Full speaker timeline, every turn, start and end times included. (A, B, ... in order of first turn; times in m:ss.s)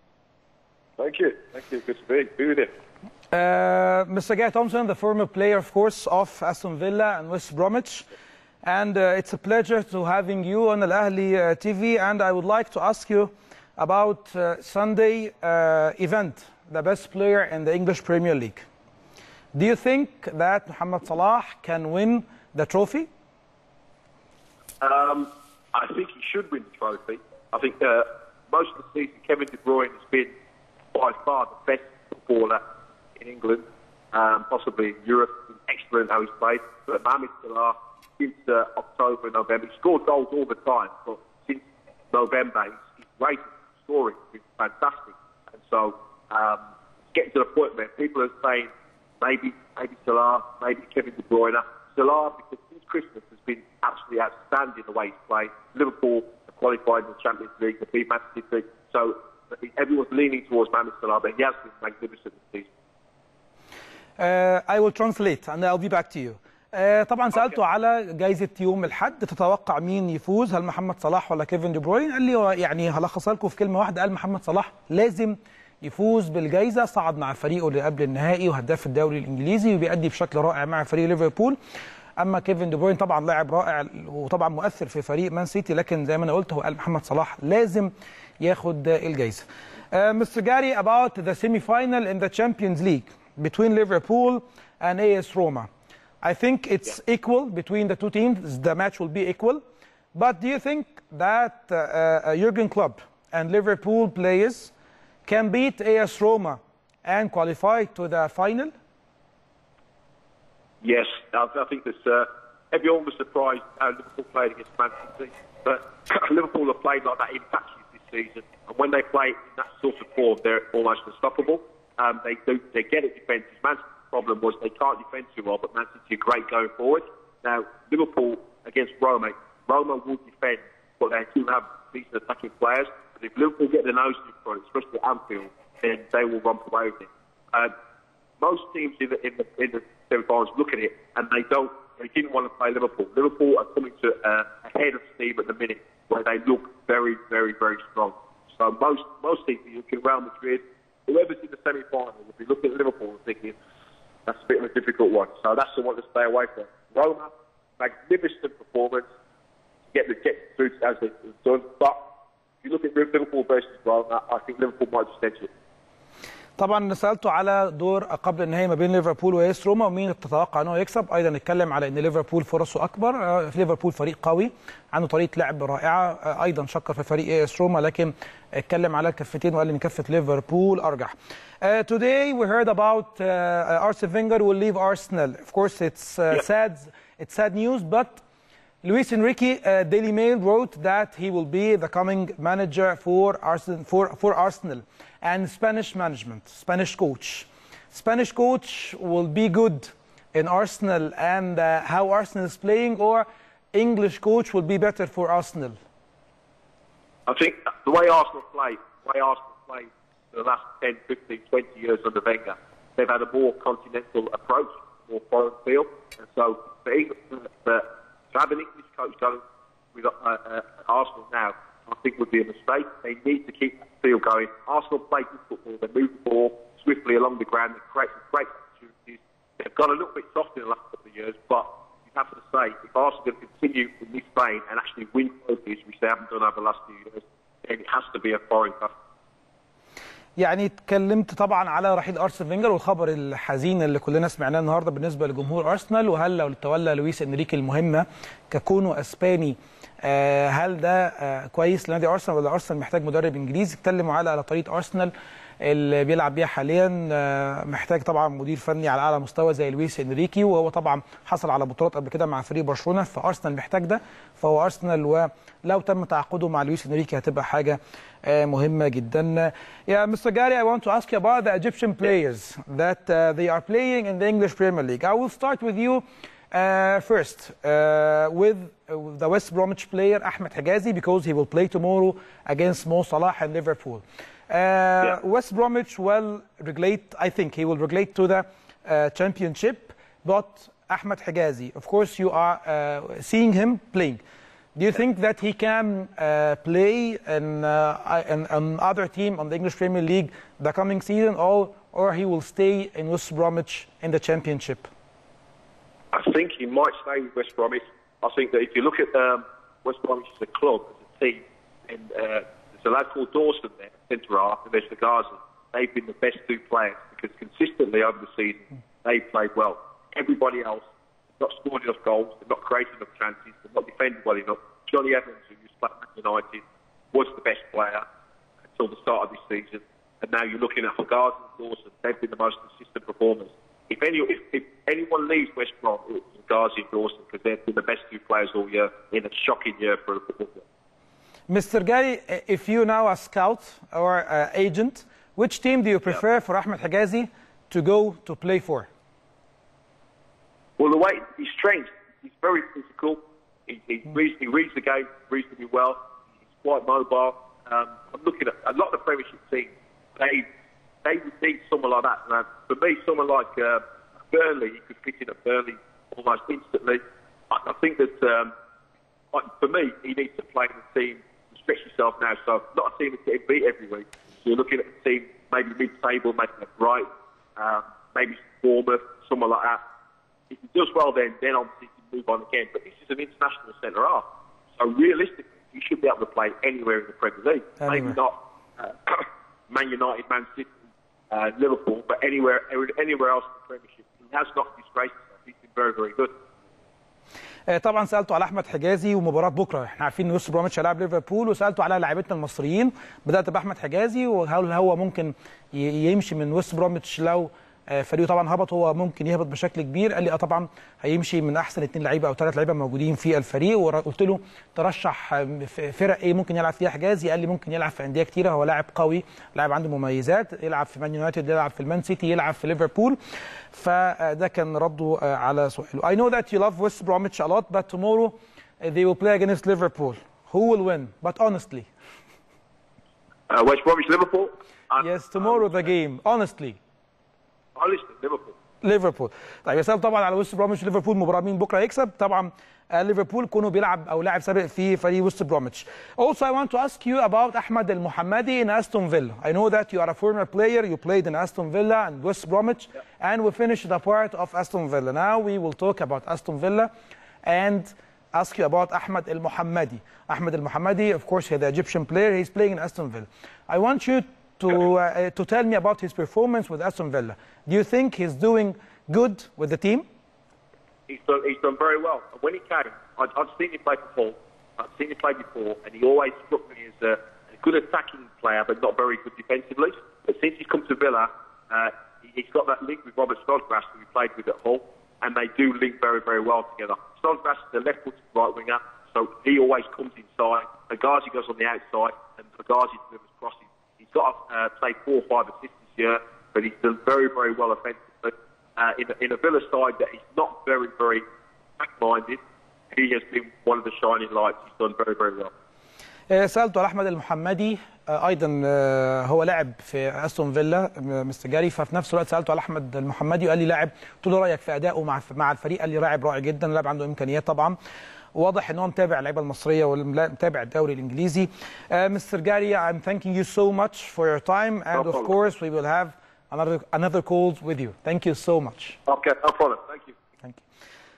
0:01.0-0:02.7 A
0:03.3-0:08.1 B
0:08.6-0:18.7 B
0:19.5-0:23.1 B
0:24.8-0:30.3 A
0:30.9-0:32.6 A
0:33.2-1:02.7 A
1:04.2-1:21.6 B
1:22.2-1:35.7 B
1:36.2-1:39.6 B
1:40.1-1:44.7 B
1:45.3-1:48.7 B
1:50.8-2:17.7 A
2:18.4-2:33.6 A
2:34.3-2:39.1 A
2:39.9-2:42.0 A
2:42.6-2:45.5 A
2:46.6-3:08.2 B
3:08.8-3:25.8 B
3:27.3-3:39.4 A
3:39.9-3:58.9 A
4:00.4-4:54.2 B
4:54.8-5:04.9 B
5:06.1-5:20.9 A
5:21.4-5:28.0 A
5:28.7-5:40.6 A
5:41.5-5:48.9 B
5:50.8-5:56.0 A
5:56.6-6:00.5 A
6:01.0-6:08.5 A
6:09.3-6:19.8 A
6:20.5-6:24.2 A
6:24.8-6:30.8 A
6:27.8-6:28.2 B
6:31.3-6:36.3 A
6:37.7-7:03.2 B
7:03.7-7:11.9 B
7:13.5-7:15.9 A
7:15.0-7:16.8 B
7:17.8-7:18.6 A
7:18.8-7:36.9 B
7:37.4-7:50.0 B
7:51.1-8:21.2 A
8:21.8-8:25.5 A
8:26.3-8:37.8 B
8:38.4-8:49.0 B
8:44.9-8:45.3 A
8:49.1-8:50.1 A